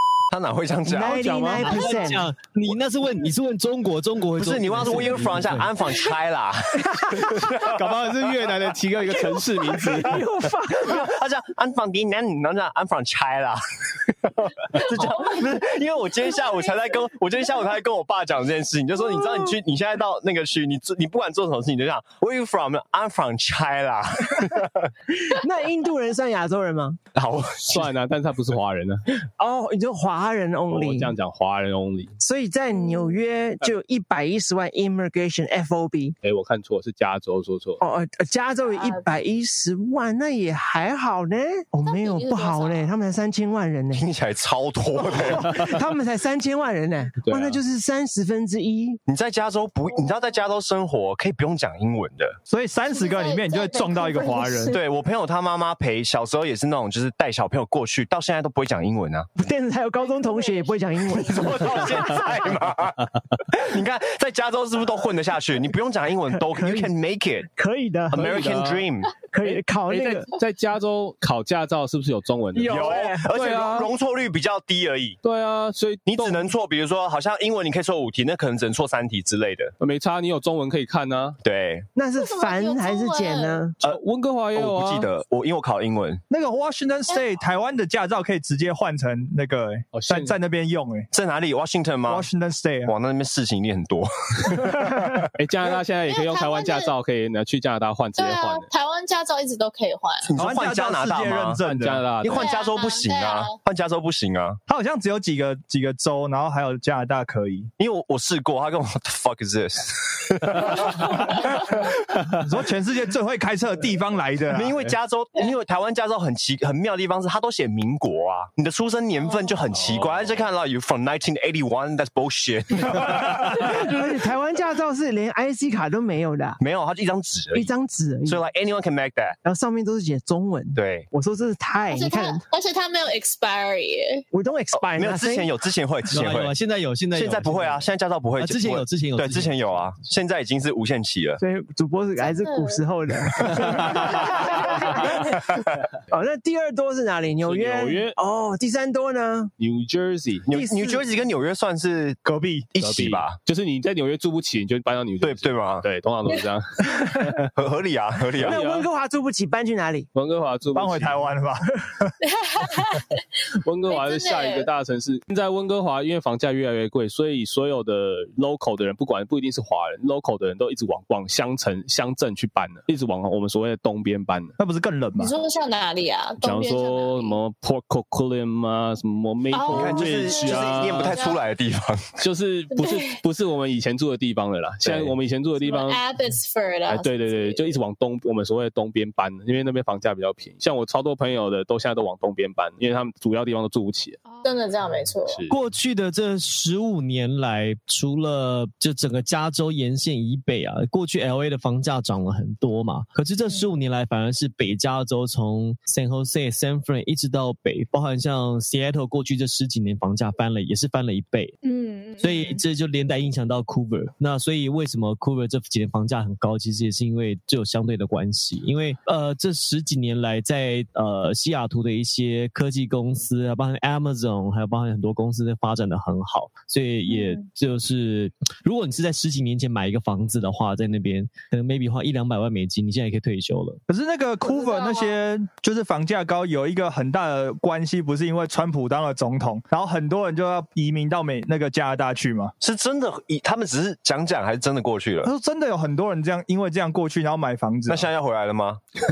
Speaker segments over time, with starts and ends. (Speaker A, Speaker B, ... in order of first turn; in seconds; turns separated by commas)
Speaker A: 0.3-1.2, Speaker B: 0.8-2.3, Speaker C: 1.0-1.7, Speaker D: 1.6-5.7, Speaker A: 4.4-7.8, Speaker C: 7.6-10.2, Speaker B: 9.8-11.1, Speaker A: 10.8-24.9, Speaker E: 15.0-15.4, Speaker B: 25.3-27.0, Speaker A: 27.1-27.9, Speaker C: 27.7-29.1, Speaker B: 29.4-31.1, Speaker C: 30.7-32.1, Speaker B: 32.2-36.1, Speaker C: 36.2-37.8, Speaker B: 37.8-44.1, Speaker E: 38.6-39.1, Speaker E: 41.8-42.9, Speaker A: 43.9-45.7, Speaker B: 44.9-49.0, Speaker C: 47.2-47.6, Speaker A: 49.1-52.4, Speaker E: 49.9-50.3, Speaker F: 52.5-54.8, Speaker E: 52.9-54.8, Speaker A: 54.7-59.3, Speaker B: 59.4-62.5, Speaker A: 61.1-67.5, Speaker B: 66.3-66.9, Speaker B: 67.5-68.5, Speaker A: 68.1-69.1, Speaker C: 68.1-68.9, Speaker B: 69.3-70.3, Speaker C: 69.4-73.9, Speaker B: 72.5-73.3, Speaker A: 72.6-75.2, Speaker C: 75.2-76.5, Speaker A: 76.1-79.7, Speaker C: 79.8-81.4, Speaker A: 81.4-81.9, Speaker B: 82.0-83.8, Speaker E: 82.2-83.6, Speaker C: 83.8-85.1, Speaker A: 84.5-86.2, Speaker F: 86.3-91.1, Speaker C: 89.9-90.3, Speaker A: 91.1-92.3, Speaker F: 92.0-92.9, Speaker A: 92.8-95.3, Speaker C: 95.4-98.7, Speaker E: 96.1-96.9, Speaker E: 98.2-100.3, Speaker A: 100.3-101.6, Speaker F: 100.3-102.2, Speaker C: 101.6-102.5, Speaker A: 102.2-104.6, Speaker E: 102.2-103.6, Speaker F: 104.7-107.7, Speaker A: 107.8-111.5, Speaker F: 112.3-114.9, Speaker A: 114.5-124.0, Speaker C: 119.7-120.4, Speaker B: 123.5-126.6, Speaker A: 126.6-127.7, Speaker B: 127.5-128.4, Speaker A: 128.2-129.4, Speaker B: 129.4-132.4, Speaker A: 130.7-131.1, Speaker E: 131.9-134.2, Speaker B: 134.3-135.5, Speaker A: 134.9-136.5, Speaker D: 136.1-139.8, Speaker A: 137.1-141.4, Speaker B: 141.4-145.4, Speaker E: 142.2-142.8, Speaker C: 143.8-144.1, Speaker B: 146.1-149.5, Speaker C: 147.4-148.2, Speaker C: 149.6-150.5, Speaker A: 150.5-153.4, Speaker B: 150.5-151.0, Speaker F: 152.2-152.7, Speaker C: 152.8-157.5, Speaker A: 155.2-155.8, Speaker A: 157.5-158.6, Speaker C: 158.4-158.9, Speaker B: 158.4-160.1, Speaker C: 160.1-161.2, Speaker F: 160.7-162.1, Speaker E: 162.2-163.2, Speaker C: 163.6-174.5, Speaker E: 163.9-164.7, Speaker F: 174.6-175.3, Speaker E: 175.2-177.4, Speaker C: 176.4-181.2, Speaker E: 179.5-181.4, Speaker A: 179.7-182.0, Speaker C: 182.2-186.0, Speaker E: 182.7-183.2, Speaker A: 184.8-185.1, Speaker E: 185.6-187.8, Speaker C: 186.9-194.2, Speaker E: 194.3-195.4, Speaker C: 195.3-195.5, Speaker D: 195.5-211.6, Speaker E: 211.6-212.6, Speaker D: 212.2-233.8, Speaker E: 227.1-227.4, Speaker F: 233.9-242.5, Speaker E: 234.4-235.1, Speaker A: 242.6-245.3, Speaker F: 245.2-248.1, Speaker A: 247.9-248.8